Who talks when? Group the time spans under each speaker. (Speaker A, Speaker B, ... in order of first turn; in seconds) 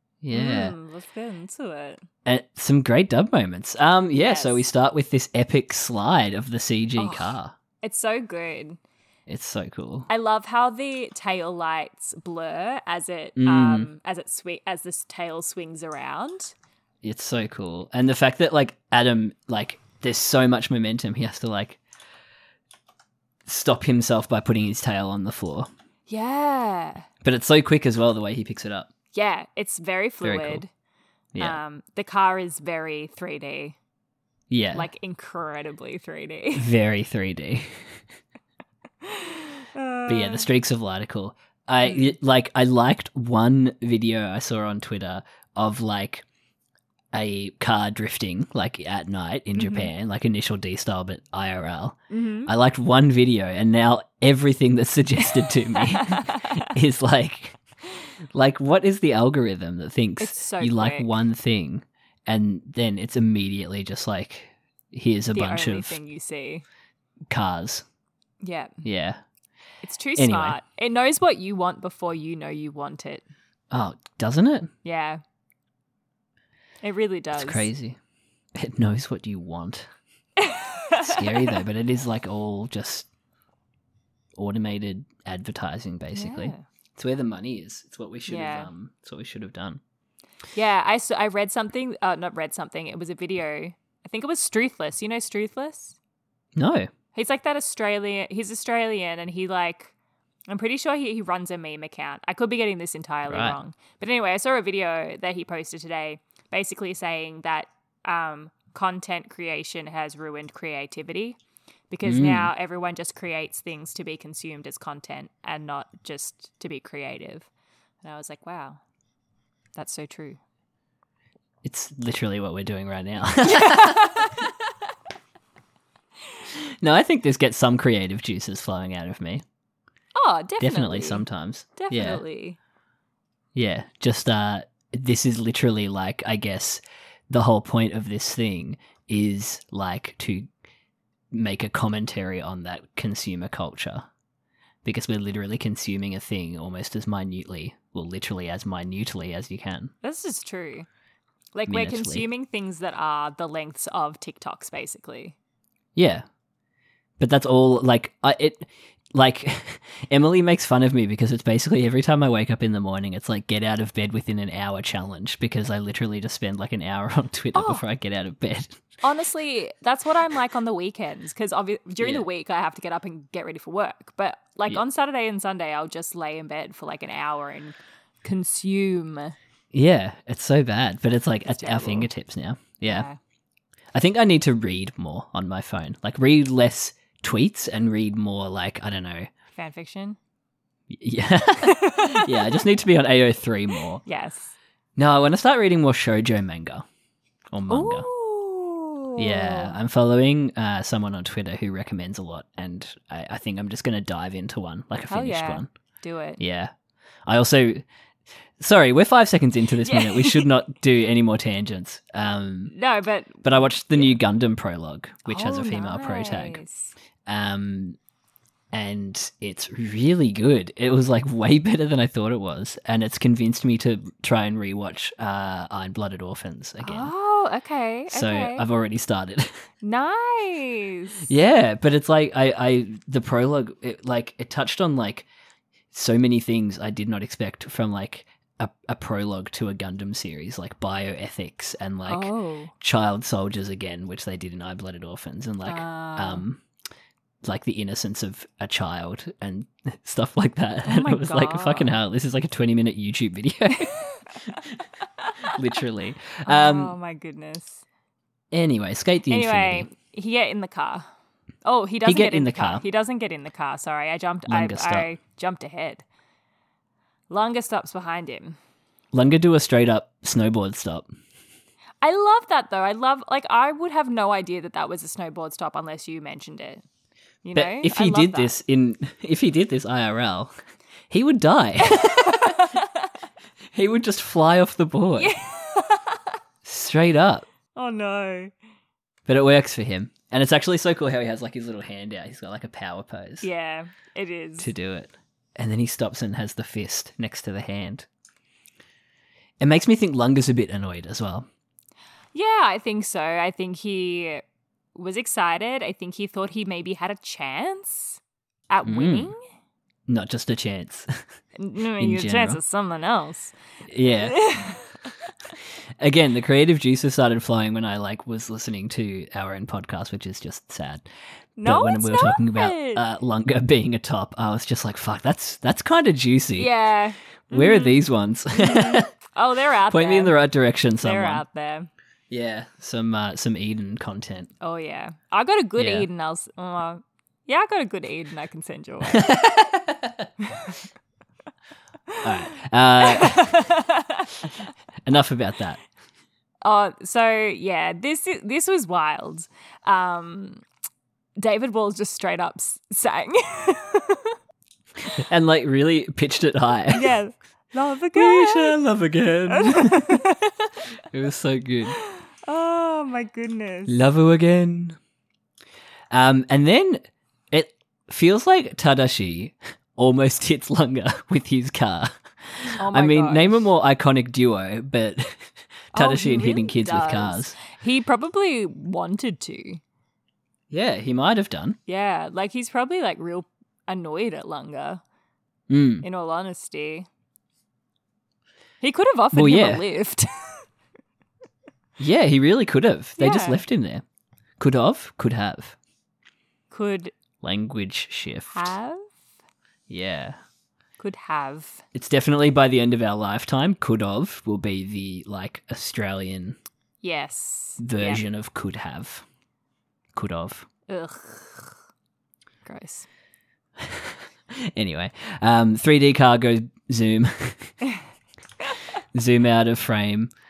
Speaker A: 0.2-0.8, 2.2-7.5, 9.3-10.1, 13.4-13.9, 17.0-21.8, 23.5-25.7, 27.2-28.9, 30.2-30.6, 34.5-34.9, 36.6-37.9, 40.1-46.2, 47.1-57.6, 58.3-66.0, 67.3-67.8, 68.8-69.2, 70.2-70.6, 73.7-74.7, 77.4-78.0, 78.5-79.9, 81.0-83.1, 84.3-89.8, 96.6-96.9, 103.3-103.6, 112.0-112.5, 121.6-124.4, 126.5-129.4, 130.6-132.2, 133.5-140.5, 141.3-144.1, 144.8-149.9, 151.7-152.3, 155.9-156.2, 157.2-168.8, 172.0-172.3, 179.7-183.1, 183.9-189.3, 190.9-194.0, 195.0-196.9, 197.5-198.1, 199.2-205.7, 206.4-206.7, 207.3-207.8, 208.6-212.7, 213.4-216.6, 217.3-218.0, 218.7-227.1, 228.1-229.6, 231.3-235.3, 235.9-246.6, 247.4-253.9, 255.5-256.9, 258.5-259.9, 262.0-262.9, 264.5-265.1, 269.1-271.1, 277.5-280.5, 281.1-282.8, 283.7-285.3, 286.6-287.5, 289.3-293.5, 294.6-298.1, 299.6-301.5, 308.9-309.3, 310.1-311.2, 312.0-312.6, 313.9-314.5, 316.0-321.1, 321.6-326.7, 327.5-329.1, 329.9-331.4, 332.3-334.5, 335.8-336.1, 339.1-340.3, 342.2-343.7, 345.0-345.8, 355.2-357.1, 358.1-360.2, 361.1-362.0, 363.9-365.0, 366.1-377.6, 380.7-381.8, 385.7-386.1, 389.3-389.8, 392.0-394.0, 394.6-395.8, 397.4-398.7, 399.9-400.4, 401.9-406.6, 407.8-409.2, 410.1-410.7, 413.8-417.7, 419.1-420.3
Speaker B: 0.3-2.0, 4.1-4.7, 7.0-8.8, 10.1-16.5, 26.1-27.1, 29.1-30.7, 31.4-33.8, 34.7-36.7, 39.0-40.5, 41.9-42.1, 49.6-49.9, 52.1-52.5, 55.7-56.5, 60.2-61.1, 65.3-66.7, 68.4-68.8, 69.8-73.2, 74.8-75.2, 76.8-77.7, 80.4-81.6, 86.1-86.6, 88.3-88.7, 90.5-96.0, 97.2-99.9, 100.5-111.4, 111.9-117.5, 118.0-118.8, 119.8-120.4, 123.5-124.4, 130.2-131.2, 131.8-132.6, 150.0-150.9, 151.5-155.4, 167.5-167.8, 169.0-179.3, 181.6-182.1, 182.8-183.2, 189.6-190.2, 191.6-192.6, 194.1-194.6, 197.7-199.7, 205.1-206.4, 209.8-210.5, 212.7-214.2, 215.3-216.9, 226.8-228.7, 229.8-231.3, 242.1-242.7, 245.7-246.4, 250.8-252.0, 254.1-254.6, 255.2-255.5, 256.4-257.8, 259.3-261.1, 261.6-266.1, 267.3-268.6, 272.0-276.8, 277.4-278.5, 281.8-283.1, 285.1-286.2, 287.8-288.5, 293.4-294.7, 302.3-304.4, 304.9-309.4, 311.6-313.5, 314.2-315.1, 321.6-323.1, 326.6-328.0, 328.5-330.4, 331.0-331.9, 334.6-339.4, 340.5-340.8, 343.0-344.3, 346.6-350.6, 351.4-354.4, 356.9-358.8, 359.5-360.5, 361.9-364.0, 372.8-373.7, 375.9-379.8, 381.9-385.0, 386.0-387.1, 388.8-390.6, 393.2-393.6, 396.7-397.1, 398.5-399.1, 401.0-401.8, 407.0-408.2, 410.9-411.8, 412.6-413.1